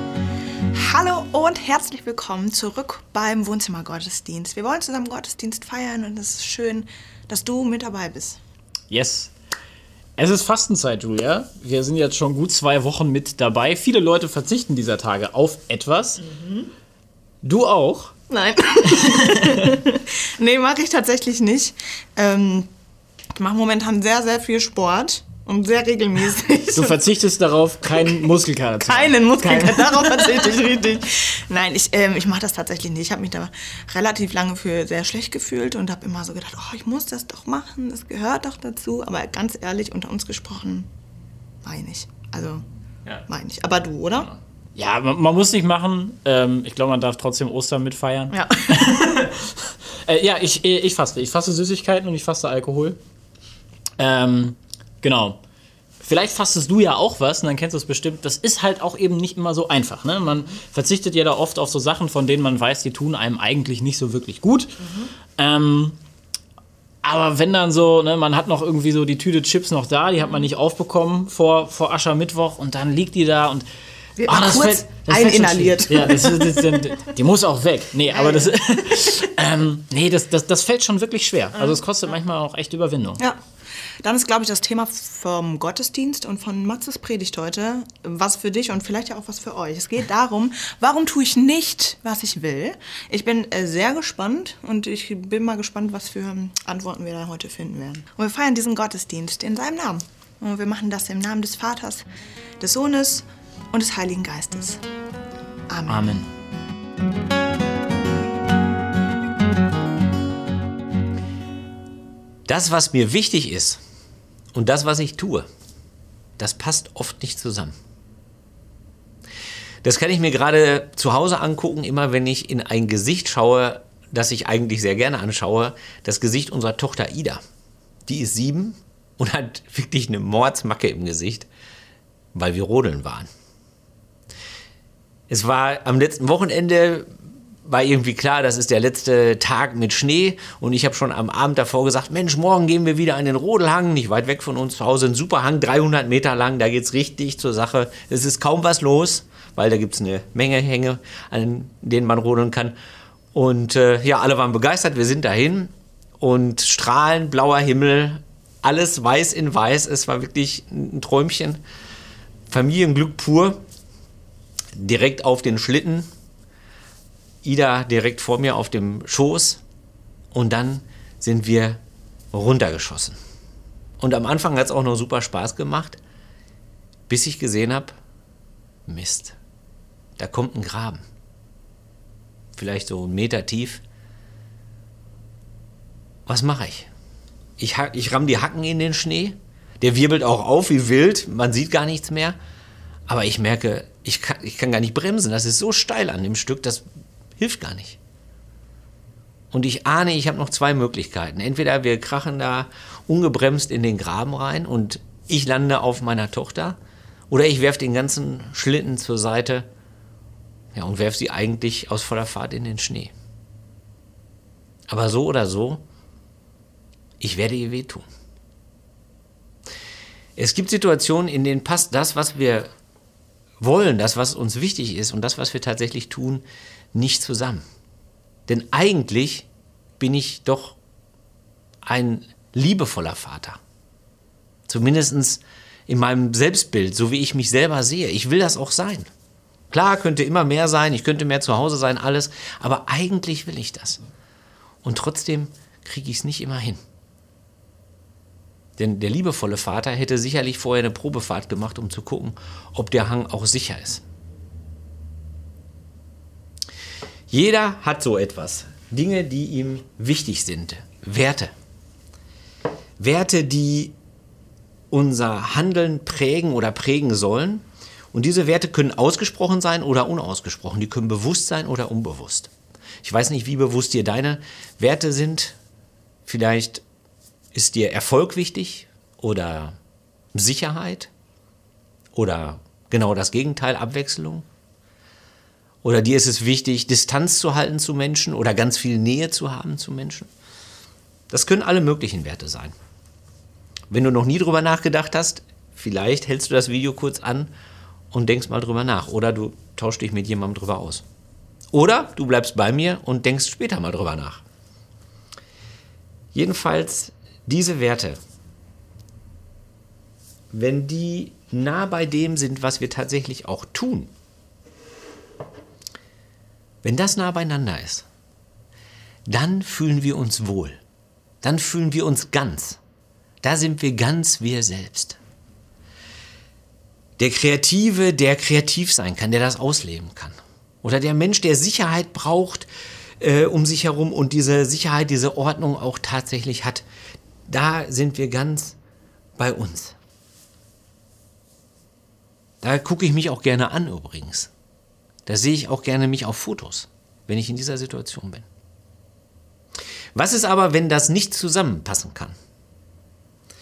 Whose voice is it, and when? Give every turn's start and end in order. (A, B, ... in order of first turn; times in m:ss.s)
0:00.7-0:08.4 A
0:08.9-0:09.3 B
0:10.2-0:16.2 B
0:16.2-0:16.7 A
0:17.4-0:18.1 B
0:18.3-0:22.7 A
0:19.0-0:19.8 B
0:23.3-0:27.0 A
0:26.7-0:30.5 B
0:27.9-0:40.9 A
0:41.6-0:42.6 A
0:43.3-0:44.3 A
0:44.8-0:53.0 B
0:48.3-0:48.9 A
0:54.0-0:55.4 B
0:56.0-1:06.0 B
1:07.0-1:13.7 B
1:14.2-1:16.9 A
1:14.2-1:23.2 B
1:18.1-1:19.2 A
1:21.6-1:21.8 A
1:23.2-1:23.4 A
1:24.0-1:42.1 A
1:42.6-1:44.8 A
1:45.7-1:46.2 A
1:45.9-1:46.3 B
1:52.5-1:53.8 C
1:54.5-1:55.5 C
1:56.4-1:57.8 C
1:59.8-2:07.4 C
2:08.1-2:11.5 C
2:12.3-2:13.3 C
2:15.3-2:17.1 C
2:17.6-2:32.8 C
2:33.3-2:41.6 C
2:42.5-2:43.6 C
2:44.8-2:46.1 C
2:47.4-2:49.6 C
2:50.3-2:51.8 C
2:52.3-2:53.2 C
2:54.0-2:56.0 C
2:57.1-2:58.0 C
2:58.9-2:59.4 C
3:00.2-3:01.0 C
3:02.6-3:03.8 C
3:06.3-3:06.9 C
3:07.6-3:12.4 C
3:13.1-3:16.8 C
3:17.4-3:18.0 C
3:19.5-3:26.8 C
3:27.3-3:29.7 C
3:30.7-3:33.1 C
3:34.9-3:35.8 C
3:37.2-3:38.1 C
3:40.4-3:42.7 C
3:43.6-3:47.6 C
3:48.5-3:49.5 C
3:50.0-3:50.8 C
3:51.8-3:53.6 C
3:54.7-3:59.1 C
3:59.7-4:04.0 C
4:04.8-4:06.8 C
4:08.8-4:14.0 C
4:17.3-4:21.5 C
4:23.0-4:24.0 C
4:24.9-4:32.5 C
4:33.0-4:35.6 C
4:36.3-4:36.8 C
4:37.5-4:39.8 C
4:40.3-4:41.1 C
4:42.1-4:44.4 C
4:45.8-4:50.3 C
4:51.3-4:52.8 C
4:53.9-4:57.5 C
4:58.1-5:01.0 C
5:01.7-5:04.4 C
5:06.3-5:08.2 C
5:10.5-5:14.1 C
5:16.8-5:18.0 C
5:19.3-5:20.8 C
5:21.4-5:22.8 C
5:23.4-5:25.2 C
5:27.2-5:32.7 C
5:33.2-5:36.8 C
5:37.5-5:38.8 C
5:39.4-5:40.0 C
5:42.6-5:44.5 C
5:45.3-5:48.5 C
5:50.2-5:52.4 C